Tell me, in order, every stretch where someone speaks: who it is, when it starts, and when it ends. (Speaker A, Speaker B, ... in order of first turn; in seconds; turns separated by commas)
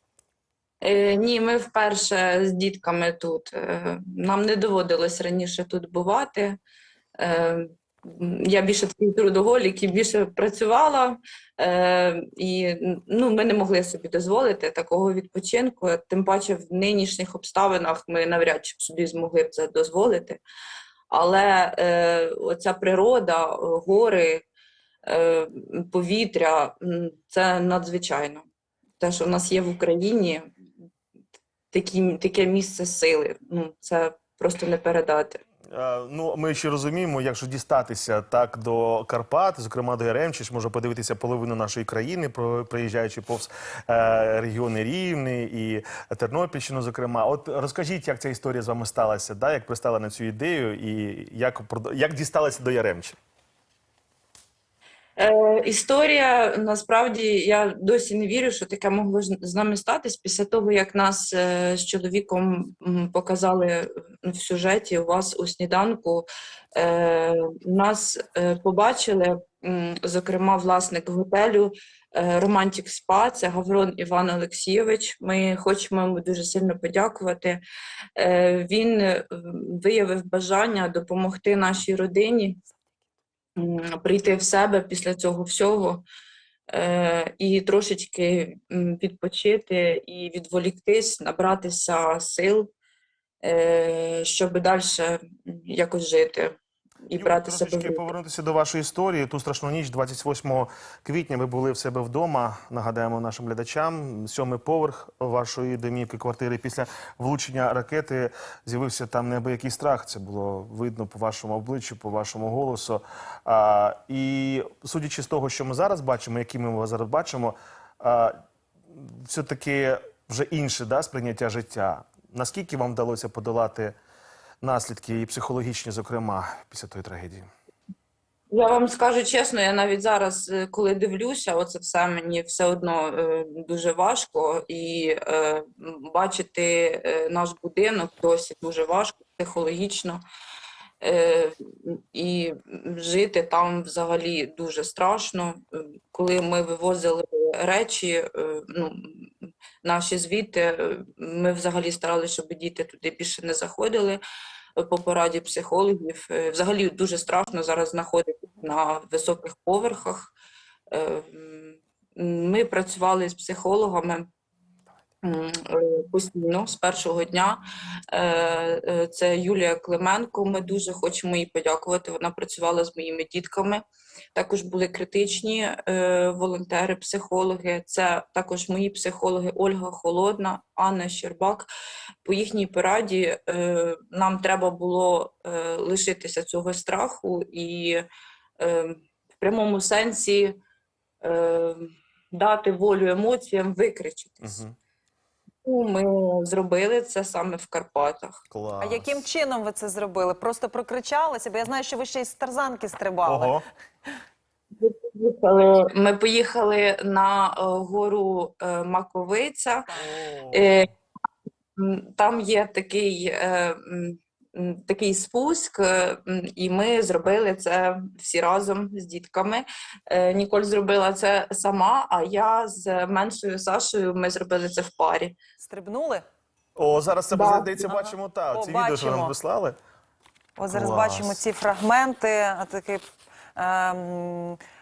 Speaker A: 0.8-6.6, Speaker A: 7.2-20.4, Speaker A: 21.1-24.4, Speaker A: 25.1-28.4, Speaker A: 29.0-30.4, Speaker A: 31.7-35.4, Speaker B: 35.7-53.1, Speaker A: 55.2-77.6, Speaker A: 78.2-82.6, Speaker A: 83.6-86.0, Speaker A: 86.7-92.7, Speaker A: 93.4-98.1, Speaker B: 97.2-118.3, Speaker B: 118.9-124.0, Speaker B: 124.6-127.5, Speaker A: 128.5-140.2, Speaker A: 141.0-149.3, Speaker A: 149.8-154.2, Speaker A: 154.8-160.3, Speaker A: 160.9-164.3, Speaker A: 165.2-167.6, Speaker A: 168.1-173.8, Speaker A: 174.3-181.7, Speaker A: 182.2-188.0, Speaker A: 188.6-190.6, Speaker A: 191.2-194.6, Speaker B: 194.4-194.7, Speaker A: 195.6-198.4, Speaker B: 198.5-199.2, Speaker C: 198.8-203.6, Speaker B: 203.2-203.6, Speaker A: 204.8-209.8, Speaker B: 210.0-210.8, Speaker A: 210.5-210.9, Speaker A: 211.8-225.4, Speaker C: 225.6-226.2, Speaker B: 226.8-229.8, Speaker A: 227.3-227.7, Speaker C: 227.8-229.3, Speaker C: 230.6-234.6, Speaker B: 230.7-231.4